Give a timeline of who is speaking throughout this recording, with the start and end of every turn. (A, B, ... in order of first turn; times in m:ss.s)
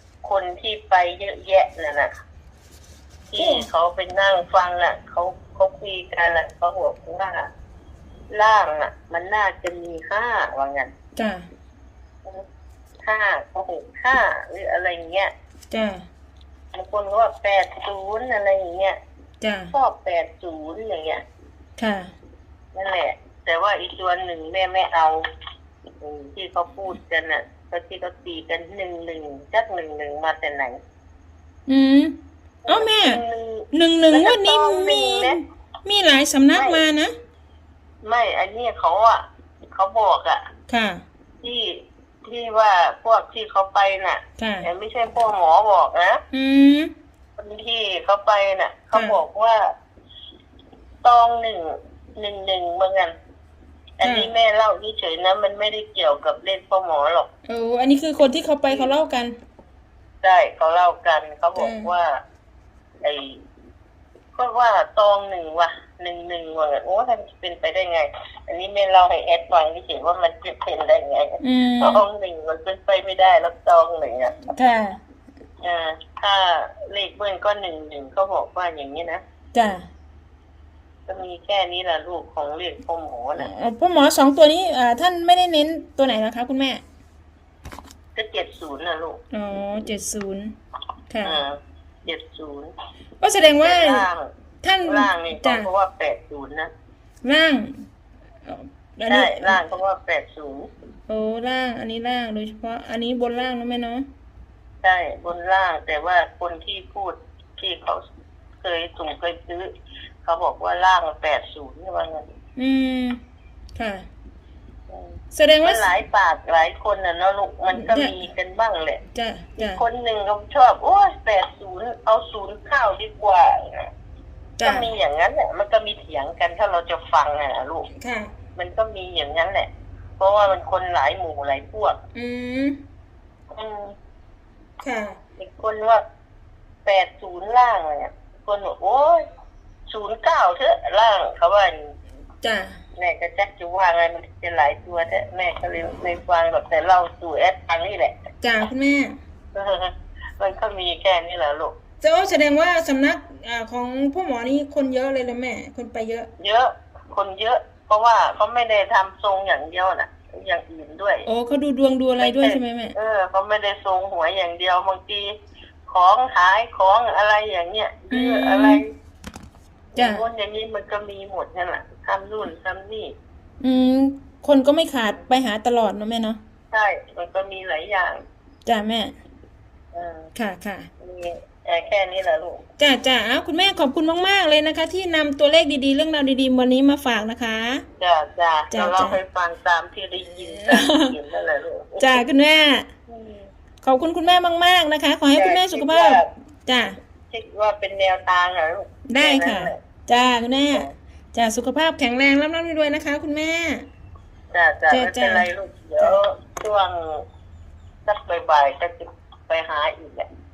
0:00.2-0:02.1 A
0:03.3-0:07.5 A
0:03.4-0:03.6 B
0:08.3-0:10.9 A
0:11.2-0:11.5 B
0:13.0-0:15.3 A
0:15.7-0:16.0 B
0:16.7-0:19.0 A
0:19.4-0:19.7 B
0:19.7-0:21.2 A
0:21.8-0:22.1 B
0:22.7-0:25.2 A
0:26.0-0:30.8 A
0:31.7-0:33.2 B
0:32.6-0:35.4 A
0:33.7-0:37.1 B
0:36.5-0:36.8 A
0:38.0-0:40.4 A
0:40.7-0:41.0 B
0:41.4-0:46.2 A
0:44.4-0:44.7 B
0:46.3-0:46.9 B
0:47.4-0:49.7 A
0:48.9-0:49.2 B
0:51.0-0:53.2 A
0:54.0-0:57.3 A
0:54.0-0:54.3 B
0:57.5-0:59.4 B
0:58.7-0:58.9 A
1:00.2-1:02.2 A
1:01.6-1:01.9 B
1:03.0-1:03.4 A
1:04.3-1:14.4 A
1:11.4-1:12.0 B
1:14.5-1:15.0 B
1:15.6-1:19.2 A
1:19.5-1:19.9 B
1:21.1-1:23.5 A
1:23.4-1:26.8 B
1:28.1-1:29.2 A
1:29.3-1:30.5 B
1:31.1-1:31.4 B
1:31.2-1:32.7 A
1:33.2-1:34.0 B
1:33.6-1:34.3 A
1:34.6-1:35.7 B
1:34.8-1:36.7 A
1:37.2-1:37.8 B
1:38.4-1:39.6 B
1:39.1-1:40.7 A
1:41.1-1:44.1 B
1:44.8-1:48.0 A
1:48.6-1:49.7 A
1:50.2-1:52.2 A
1:52.6-1:53.2 B
1:53.8-1:54.0 B
1:54.9-1:59.0 A
1:55.3-1:55.9 B
1:57.7-1:58.1 B
1:59.1-1:59.8 B
1:59.6-2:03.9 A
2:04.6-2:04.9 B
2:04.6-2:07.9 A
2:08.0-2:08.3 B
2:08.6-2:12.0 A
2:12.1-2:12.8 B
2:13.5-2:13.9 A
2:14.8-2:15.2 B
2:15.4-2:16.0 A
2:16.8-2:19.2 A
2:19.9-2:22.0 A
2:22.4-2:22.8 B
2:23.0-2:28.1 A
2:28.4-2:29.2 B
2:29.5-2:31.8 A
2:32.0-2:36.3 B
2:36.4-2:41.3 A
2:41.3-2:42.9 B
2:42.2-2:45.3 A
2:45.9-2:48.9 A
2:48.1-2:48.8 B
2:49.9-2:53.1 A
2:50.0-2:50.2 B
2:53.6-2:56.4 B
2:56.7-2:58.2 A
2:58.6-2:59.1 B
2:59.9-3:00.3 A
3:00.3-3:00.9 B
3:01.0-3:02.6 A
3:02.8-3:07.8 B
3:08.0-3:12.2 A
3:08.7-3:09.2 B
3:10.4-3:11.1 B
3:12.0-3:12.9 B
3:13.1-3:13.5 A
3:13.8-3:17.0 B
3:15.3-3:16.3 A
3:17.3-3:19.8 A
3:19.1-3:23.8 B
3:24.5-3:27.2 A
3:24.9-3:25.4 B
3:28.0-3:30.3 A